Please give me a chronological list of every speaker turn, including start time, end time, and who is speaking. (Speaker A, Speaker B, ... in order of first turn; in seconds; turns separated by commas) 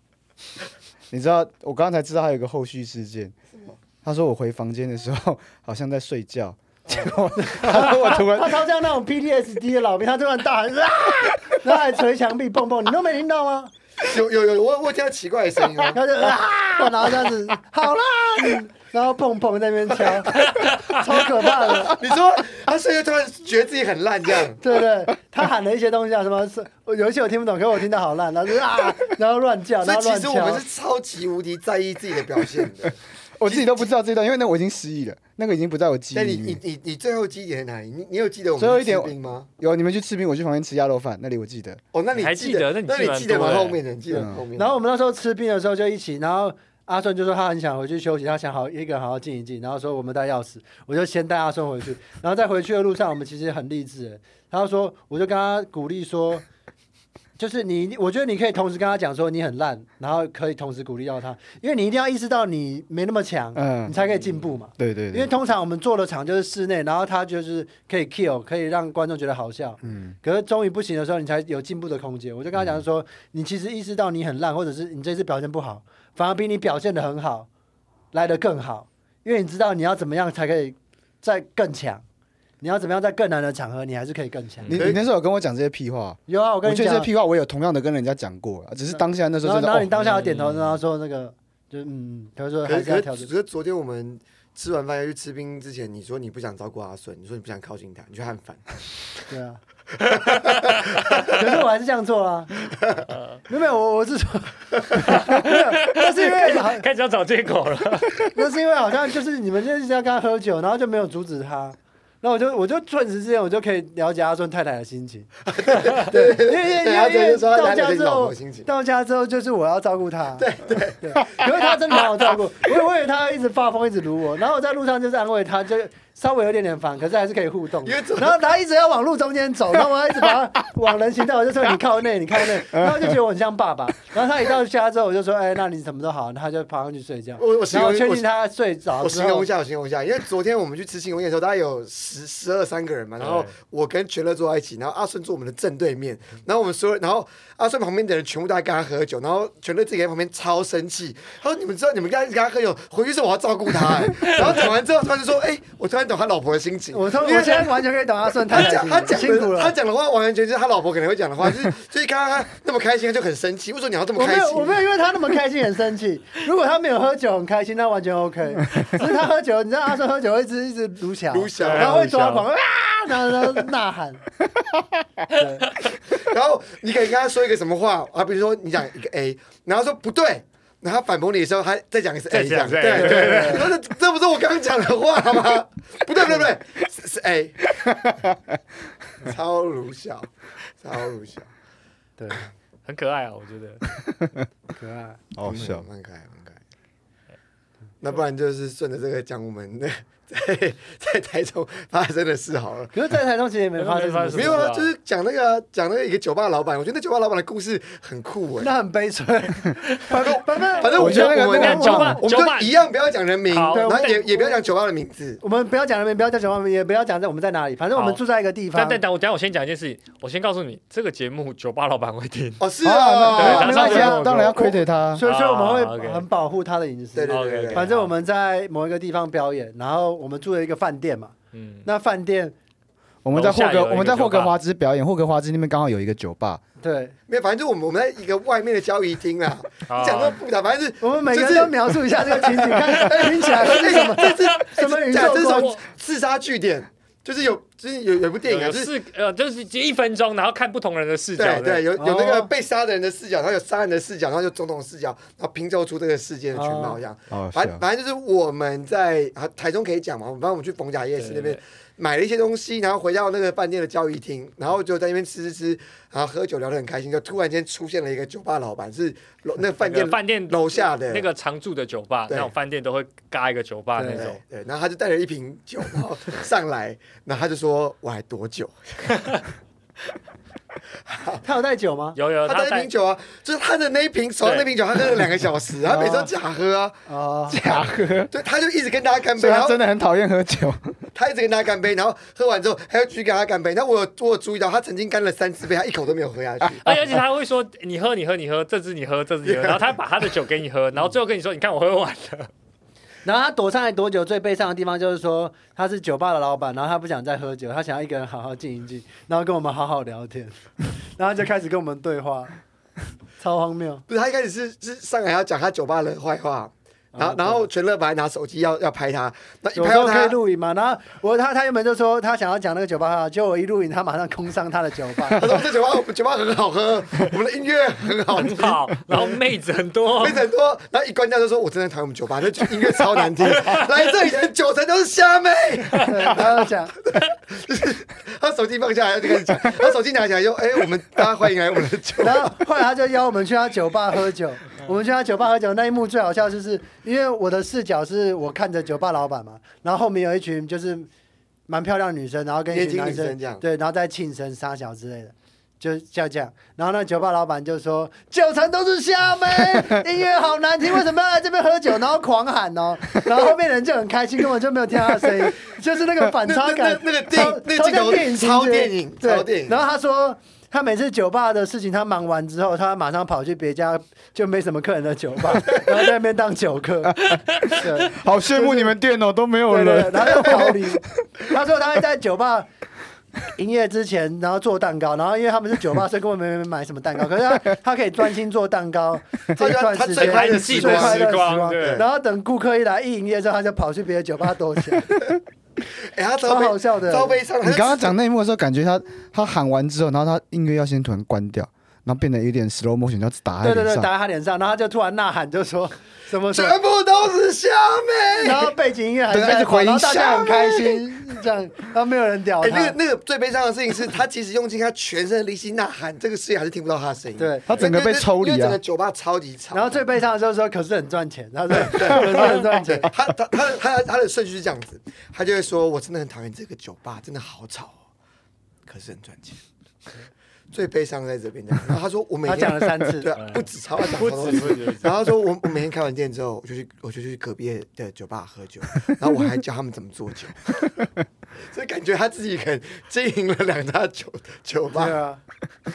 Speaker A: 1.1-3.3, Speaker A: 4.0-8.6, Speaker B: 6.9-13.7, Speaker C: 14.0-16.0, Speaker B: 15.9-22.0, Speaker D: 20.6-21.0, Speaker C: 21.7-24.6, Speaker B: 24.6-30.6, Speaker C: 29.8-33.9, Speaker A: 33.4-36.6, Speaker C: 36.1-39.5, Speaker A: 38.6-41.8, Speaker C: 41.9-44.8, Speaker D: 42.1-43.8, Speaker A: 44.1-44.4, Speaker B: 44.2-56.4, Speaker B: 57.4-77.5, Speaker A: 63.5-64.0, Speaker D: 64.0-64.4, Speaker A: 64.8-65.3, Speaker A: 69.8-70.2, Speaker B: 78.1-82.0, Speaker B: 82.6-84.7, Speaker A: 84.7-89.9, Speaker C: 84.7-85.0, Speaker B: 86.3-87.1, Speaker B: 88.9-93.3, Speaker D: 90.0-90.8, Speaker C: 92.6-98.6, Speaker B: 99.3-99.6, Speaker C: 100.0-101.3, Speaker B: 101.2-102.5, Speaker D: 103.1-103.4, Speaker B: 103.5-106.8, Speaker D: 105.1-108.3, Speaker B: 108.3-115.3, Speaker C: 115.5-118.7, Speaker B: 116.0-120.4, Speaker C: 120.3-121.5, Speaker B: 121.0-139.5, Speaker C: 127.8-128.4, Speaker A: 132.7-133.1, Speaker C: 137.4-138.3, Speaker C: 139.0-157.8, Speaker D: 143.2-143.5, Speaker B: 156.9-159.7, Speaker C: 158.5-164.8, Speaker B: 164.2-174.2, Speaker C: 171.3-172.2, Speaker D: 171.6-172.4, Speaker B: 175.3-175.7, Speaker C: 176.1-188.2, Speaker D: 182.3-183.8, Speaker B: 182.9-183.7, Speaker A: 187.8-188.1, Speaker C: 189.2-191.5, Speaker B: 192.2-192.5, Speaker D: 192.8-193.8, Speaker B: 194.7-195.2, Speaker A: 195.3-195.8, Speaker C: 195.4-196.6, Speaker C: 198.0-202.9, Speaker B: 202.9-204.7, Speaker D: 203.8-204.9, Speaker C: 204.3-208.7, Speaker B: 208.6-212.2, Speaker C: 210.2-215.4, Speaker A: 210.9-212.2, Speaker D: 211.0-212.8, Speaker D: 213.5-214.2, Speaker B: 213.7-214.6, Speaker B: 215.4-219.0, Speaker D: 217.9-218.2, Speaker D: 218.7-222.7, Speaker C: 222.6-224.5, Speaker B: 222.8-232.5, Speaker D: 223.3-224.2, Speaker A: 223.4-225.2, Speaker D: 225.2-226.2, Speaker C: 227.1-227.9, Speaker D: 227.3-228.1, Speaker D: 231.5-231.9, Speaker A: 233.2-236.6, Speaker D: 233.3-234.5, Speaker B: 236.8-237.1, Speaker C: 237.3-248.9, Speaker D: 239.9-240.4, Speaker B: 241.0-245.8, Speaker D: 248.4-251.8, Speaker C: 251.4-271.2, Speaker B: 252.0-252.5, Speaker B: 256.5-257.0, Speaker A: 257.3-257.8, Speaker D: 261.1-261.6, Speaker D: 269.8-274.4, Speaker B: 273.9-274.3, Speaker C: 274.1-279.4, Speaker C: 281.0-281.4, Speaker B: 281.4-282.2, Speaker D: 282.1-282.9, Speaker C: 282.4-287.0, Speaker D: 284.4-284.7, Speaker B: 285.9-286.3, Speaker B: 287.1-287.6, Speaker A: 287.5-288.3, Speaker C: 288.3-289.8, Speaker A: 289.4-291.0, Speaker C: 291.1-296.9, Speaker D: 296.8-302.5, Speaker C: 299.4-300.0, Speaker B: 303.2-312.6, Speaker B: 313.4-314.0, Speaker C: 314.1-320.4, Speaker B: 317.1-317.7, Speaker B: 319.7-325.6, Speaker C: 325.3-329.3, Speaker D: 328.3-330.5, Speaker C: 330.1-342.6, Speaker D: 333.4-333.8, Speaker B: 336.0-336.9, Speaker B: 342.2-351.1, Speaker B: 351.7-378.9, Speaker C: 352.7-353.6, Speaker C: 366.4-369.8, Speaker A: 378.0-380.8, Speaker B: 379.7-382.7, Speaker B: 383.5-395.1, Speaker C: 389.6-392.0, Speaker D: 390.1-392.0, Speaker C: 396.0-398.1, Speaker B: 396.4-397.4, Speaker A: 397.6-404.1, Speaker B: 403.6-406.8, Speaker C: 406.5-408.7, Speaker B: 408.4-413.0, Speaker A: 409.3-410.2, Speaker C: 410.0-411.1, Speaker C: 412.6-420.0, Speaker B: 417.4-417.7, Speaker A: 417.7-418.8, Speaker B: 419.7-423.1, Speaker C: 421.8-428.0, Speaker C: 428.9-429.6, Speaker C: 430.7-440.9, Speaker B: 432.4-433.3, Speaker D: 433.3-435.3, Speaker C: 441.6-445.2, Speaker B: 444.9-445.4